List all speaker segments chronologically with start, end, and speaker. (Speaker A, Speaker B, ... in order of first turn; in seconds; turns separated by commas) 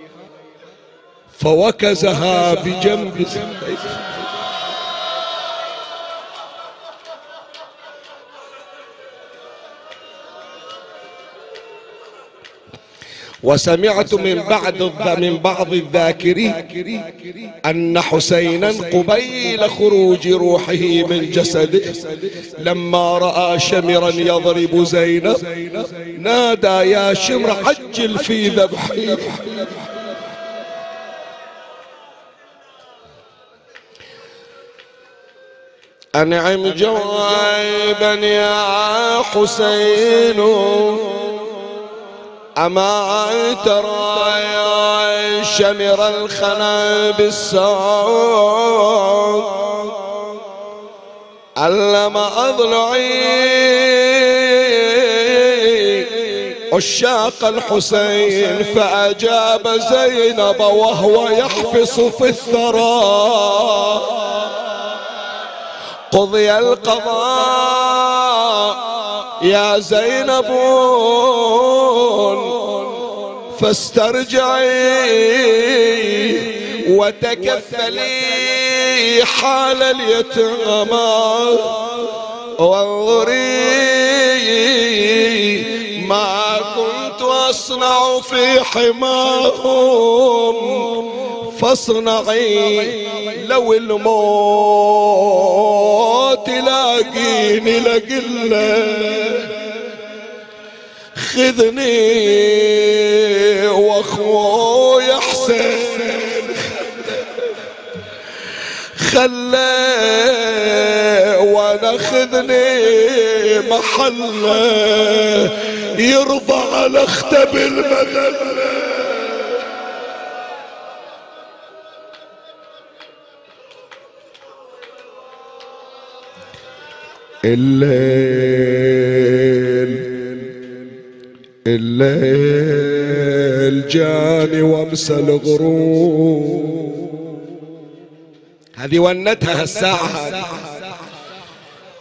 Speaker A: 1.4-4.2, Speaker A: 13.4-17.1, Speaker A: 17.6-30.1, Speaker A: 36.1-41.6, Speaker A: 42.5-50.1, Speaker A: 51.6-64.5, Speaker A: 66.1-99.6, Speaker A: 101.1-107.5, Speaker A: 109.0-119.6, Speaker A: 127.4-130.5, Speaker A: 131.6-137.3, Speaker A: 138.8-140.8